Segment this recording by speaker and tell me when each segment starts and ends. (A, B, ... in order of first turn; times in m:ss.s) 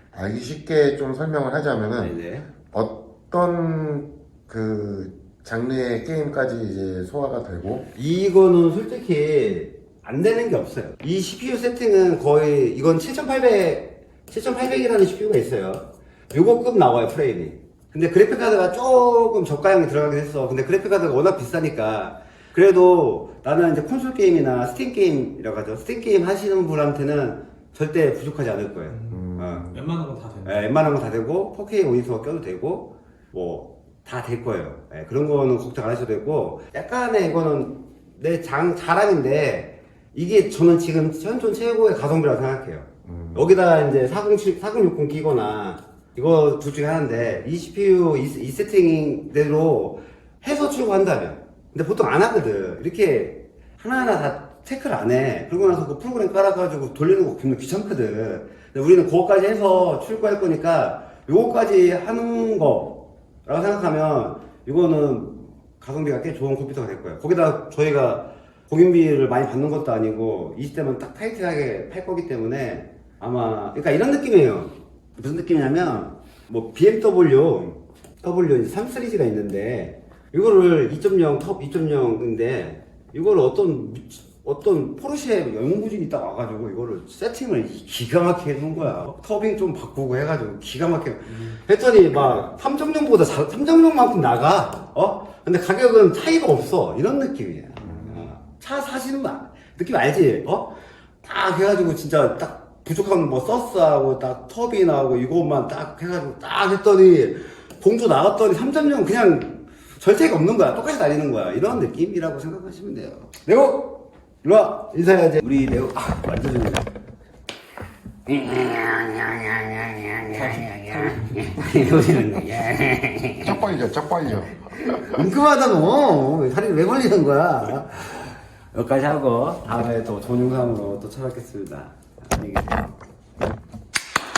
0:00.1-0:02.1 A
0:02.0-0:02.5 B
0:02.7-0:07.9 A
0:07.9-0:29.6 B
0:28.9-0:30.7 C
0:29.1-0:29.8 A
0:30.4-1:56.8 B
0:43.1-0:43.4 A
1:37.8-1:38.3 C
1:58.3-2:03.8 B
2:00.3-2:01.5 C
2:03.4-2:05.2 A
2:05.0-2:13.0 B